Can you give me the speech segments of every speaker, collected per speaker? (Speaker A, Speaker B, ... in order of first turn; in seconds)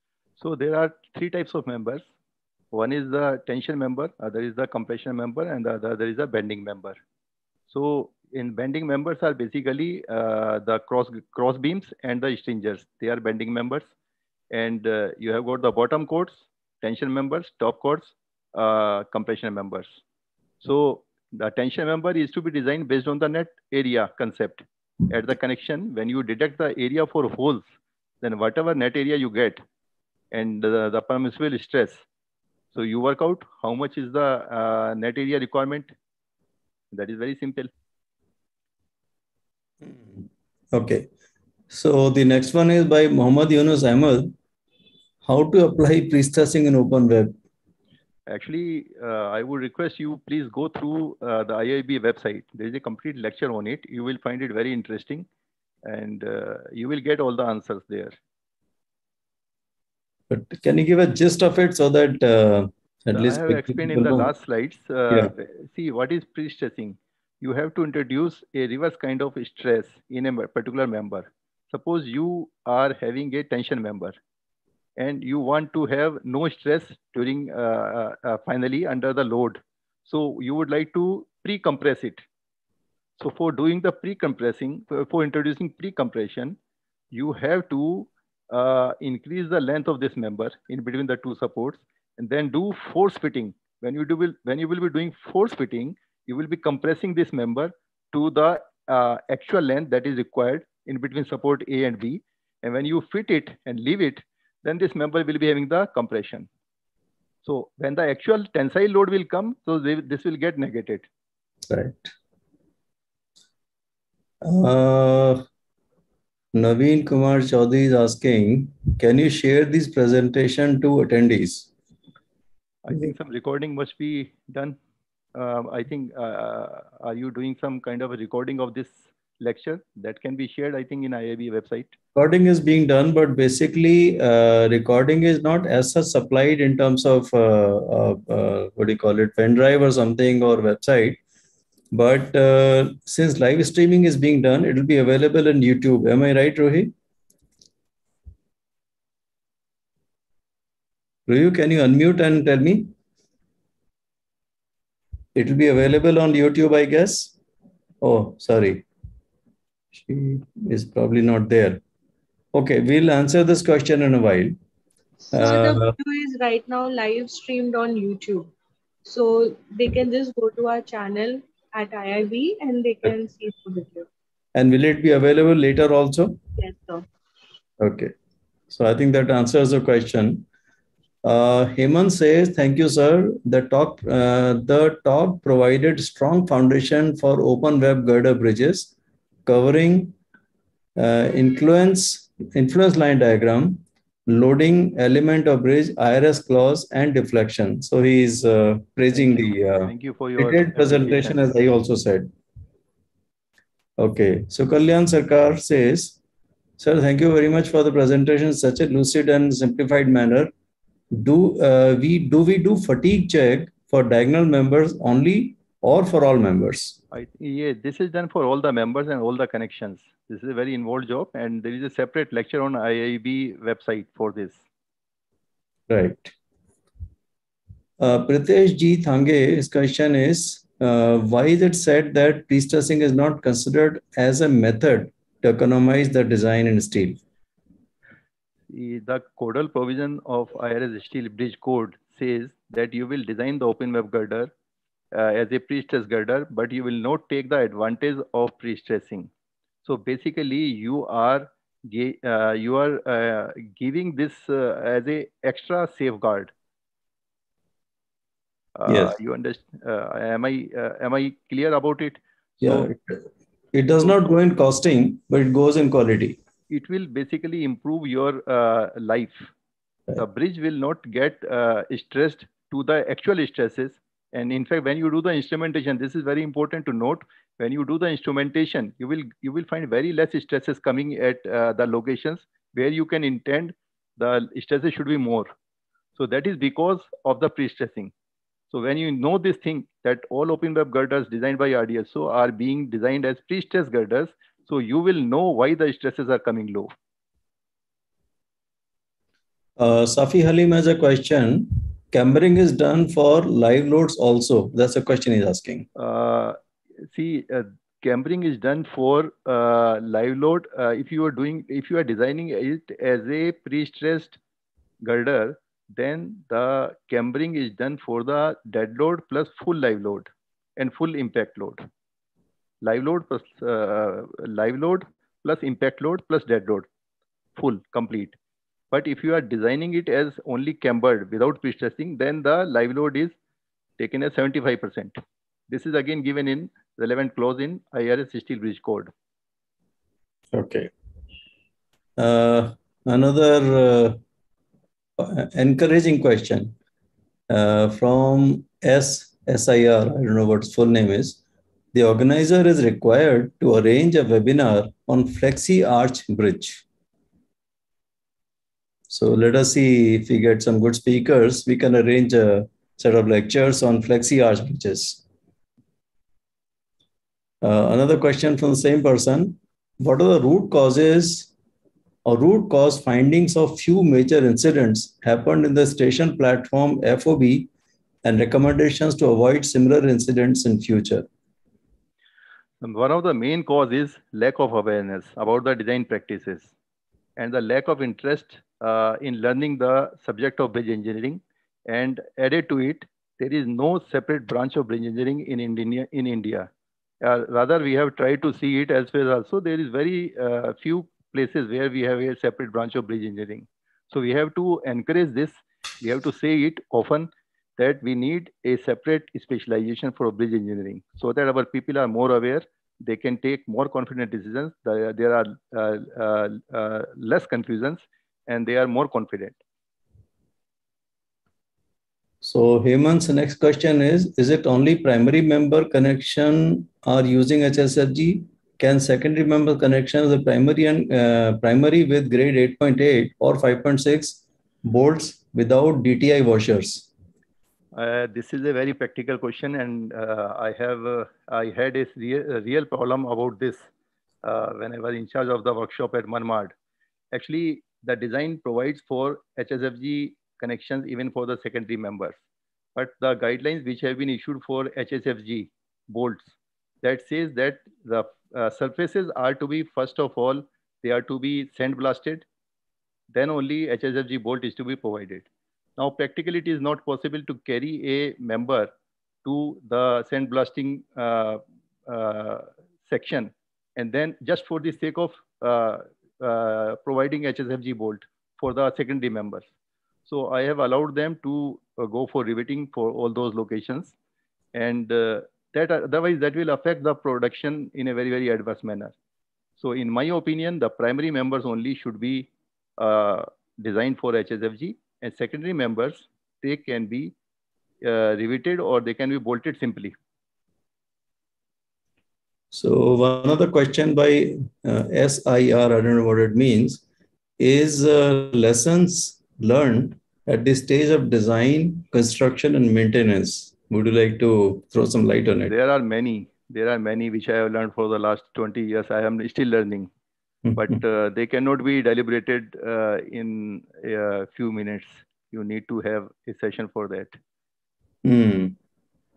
Speaker A: 0.4-2.1, 2.7-7.0, 7.7-13.9, 14.5-20.0, 20.6-27.7, 28.2-29.6, 30.3-32.0, 32.7-35.9, 36.9-37.7, 48.3-55.3, 55.9-58.2, 63.1-74.2, 75.0-82.2, 83.2-86.6, 87.1-106.5, 107.5-111.1, 122.8-124.8, 125.3-131.9, 199.1-201.4, 217.1-224.6, 238.7-244.5, 245.1-249.3, 249.8-256.5, 258.8-262.9, 266.7-269.5, 270.2-285.5, 286.2-288.1, 288.7-296.9, 306.0-314.4, 315.0-321.8, 322.8-326.9, 327.6-328.4, 328.9-333.4, 334.0-335.2, 335.7-339.1, 382.8-386.7, 387.4-396.7, 397.2-419.6, 437.9-443.9, 444.4-446.7, 447.3-452.4, 453.0-462.4, 463.3-465.5, 466.0-468.9, 469.4-479.7, 480.3-484.1, 484.8-489.1, 489.8-497.4, 498.0-500.1, 515.7-520.1, 520.8-527.4
Speaker B: 39.8-41.1, 41.7-44.3, 45.2-47.4, 60.3-64.3, 111.7-112.1, 114.4-115.4, 116.5-121.7, 132.2-141.2, 141.9-146.9, 151.3-152.9, 155.3-157.3, 158.0-158.9, 160.0-161.8, 162.5-164.6, 165.3-165.9, 174.6-176.4, 177.8-178.1, 178.7-180.5, 181.2-188.9, 189.5-190.2, 191.0-202.3, 204.0-206.2, 206.8-210.5, 211.1-217.0, 225.9-226.3, 228.0-237.2, 258.9-259.1, 262.6-266.4, 299.8-305.9, 340.5-340.9, 342.2-344.2, 345.2-346.7, 347.5-351.4, 351.9-356.8, 359.1-365.2, 367.6-371.5, 372.2-377.7, 378.2-381.3, 422.4-437.1, 502.7-507.0, 507.6-515.7, 520.7-520.9, 528.2-528.8
Speaker C: 165.4-168.5, 169.1-174.1, 176.6-177.0